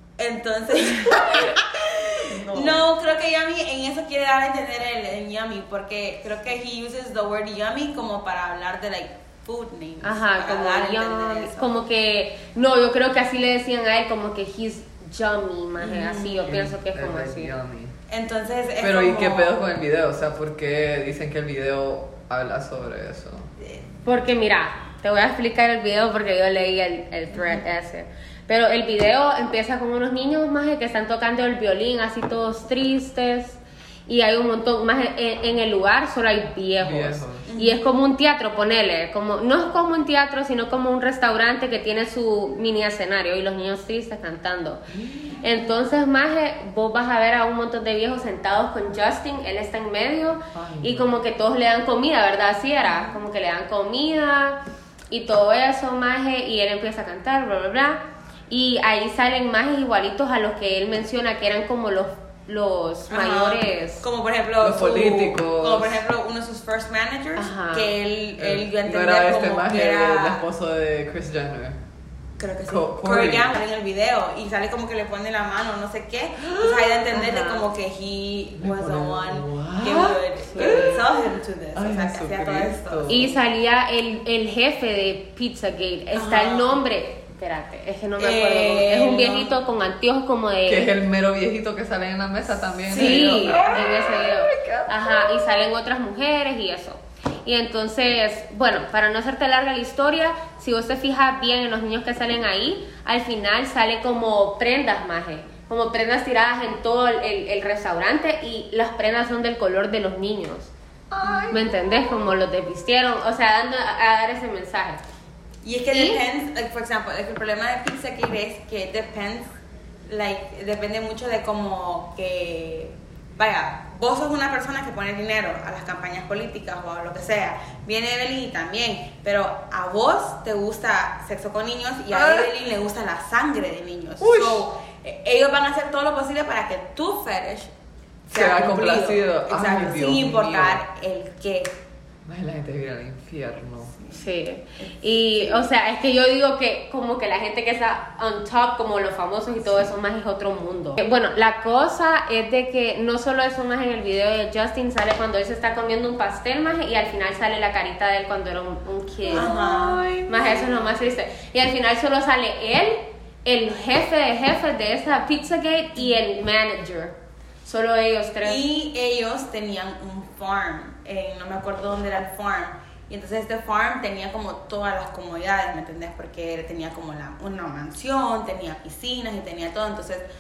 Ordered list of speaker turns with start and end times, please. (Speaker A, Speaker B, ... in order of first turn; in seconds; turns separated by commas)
Speaker A: 0.2-11.7, Speaker B: 0.8-1.6, Speaker B: 2.2-2.9, Speaker C: 10.0-17.5, Speaker A: 15.8-16.5, Speaker B: 16.5-17.9, Speaker A: 18.1-19.7, Speaker B: 18.8-23.5, Speaker C: 24.1-44.8, Speaker A: 27.3-27.6, Speaker B: 36.8-37.5, Speaker A: 37.5-37.8, Speaker B: 44.9-45.4, Speaker C: 45.4-64.0, Speaker B: 50.5-51.1, Speaker A: 52.8-53.2, Speaker A: 63.1-70.4, Speaker B: 64.6-66.0, Speaker C: 67.4-67.9, Speaker B: 68.4-71.8, Speaker A: 72.4-83.4, Speaker B: 72.7-73.5, Speaker B: 76.4-77.1, Speaker C: 77.1-77.7, Speaker B: 78.6-83.2, Speaker C: 80.5-81.0, Speaker C: 83.1-90.9, Speaker A: 86.1-86.8, Speaker A: 88.2-89.5, Speaker B: 90.7-95.5, Speaker A: 92.8-93.9, Speaker C: 92.9-110.7, Speaker B: 111.1-111.7, Speaker C: 111.5-115.0, Speaker A: 115.6-119.5, Speaker C: 115.9-116.2, Speaker A: 120.1-137.7, Speaker B: 132.1-132.5, Speaker B: 134.2-134.7, Speaker A: 138.3-141.7, Speaker B: 138.3-140.8, Speaker B: 142.3-144.0, Speaker C: 144.1-159.5, Speaker A: 144.8-145.7, Speaker A: 159.3-160.1, Speaker B: 159.3-160.6, Speaker C: 160.3-168.6, Speaker A: 168.4-180.3